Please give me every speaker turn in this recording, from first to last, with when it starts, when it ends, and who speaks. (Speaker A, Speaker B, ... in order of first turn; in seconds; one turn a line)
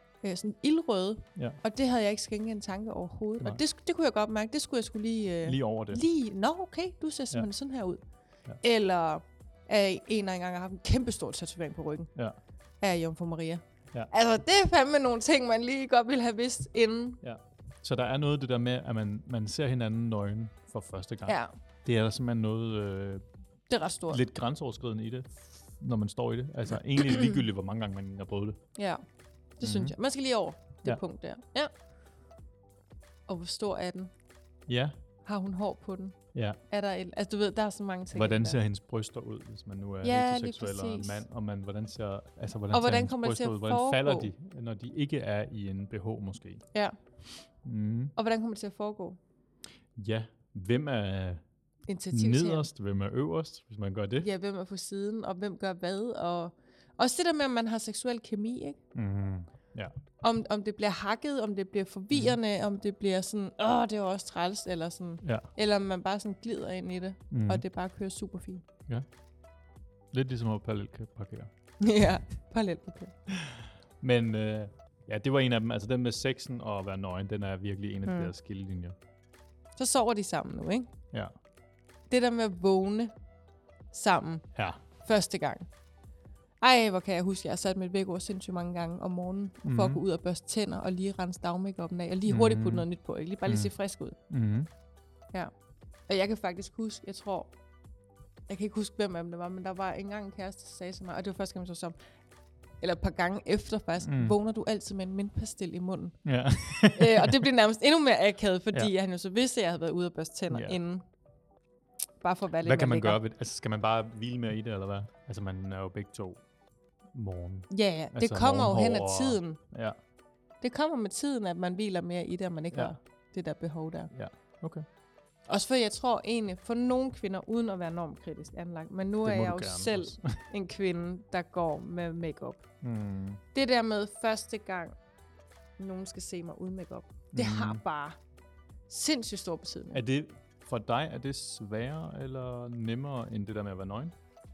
Speaker A: 0.2-8.0
Speaker B: 5.4-6.0
Speaker A: 8.6-12.1
Speaker A: 12.8-17.2
Speaker B: 17.2-23.2
Speaker A: 21.3-21.5
Speaker A: 23.7-24.2
Speaker B: 24.1-28.6
Speaker A: 28.8-29.0
Speaker A: 29.6-31.7
Speaker B: 29.6-29.9
Speaker A: 33.3-34.1
Speaker B: 34.7-35.0
Speaker A: 35.2-36.2
Speaker B: 36.3-36.6
Speaker A: 36.7-38.6
Speaker B: 38.1-46.6
Speaker A: 40.0-41.2
Speaker A: 42.7-44.3
Speaker B: 47.6-48.1
Speaker A: 48.1-49.2
Speaker B: 50.0-51.4
Speaker A: 51.9-52.7
Speaker B: 52.1-54.3
Speaker A: 54.2-58.8
Speaker B: 58.9-59.9
Speaker A: 60.2-68.6
Speaker B: 65.2-65.5
Speaker B: 67.3-67.6
Speaker B: 70.1-71.5
Speaker A: 71.8-73.1
Speaker B: 73.3-79.0
Speaker A: 78.0-78.3
Speaker A: 79.8-80.9
Speaker A: 82.1-83.1
Speaker A: 83.9-84.5
Speaker B: 84.5-84.8
Speaker A: 85.0-85.7
Speaker A: 86.6-94.2
Speaker B: 89.6-90.0
Speaker B: 92.3-92.8
Speaker B: 93.5-93.7
Speaker B: 94.3-94.7
Speaker A: 96.1-97.5
Speaker A: 98.5-102.0
Speaker A: 102.8-106.2
Speaker B: 104.0-104.3
Speaker B: 106.2-107.4
Speaker A: 106.9-111.0
Speaker B: 110.5-110.8
Speaker A: 112.2-113.2
Speaker B: 112.6-116.4
Speaker B: 117.1-120.0
Speaker A: 117.7-119.6
Speaker A: 120.6-124.1
Speaker B: 124.1-124.8
Speaker A: 125.5-132.6
Speaker B: 129.2-130.4
Speaker B: 132.8-133.4
Speaker A: 133.5-134.9
Speaker A: 135.8-138.2
Speaker B: 137.3-137.8
Speaker A: 138.9-140.0
Speaker B: 139.9-144.1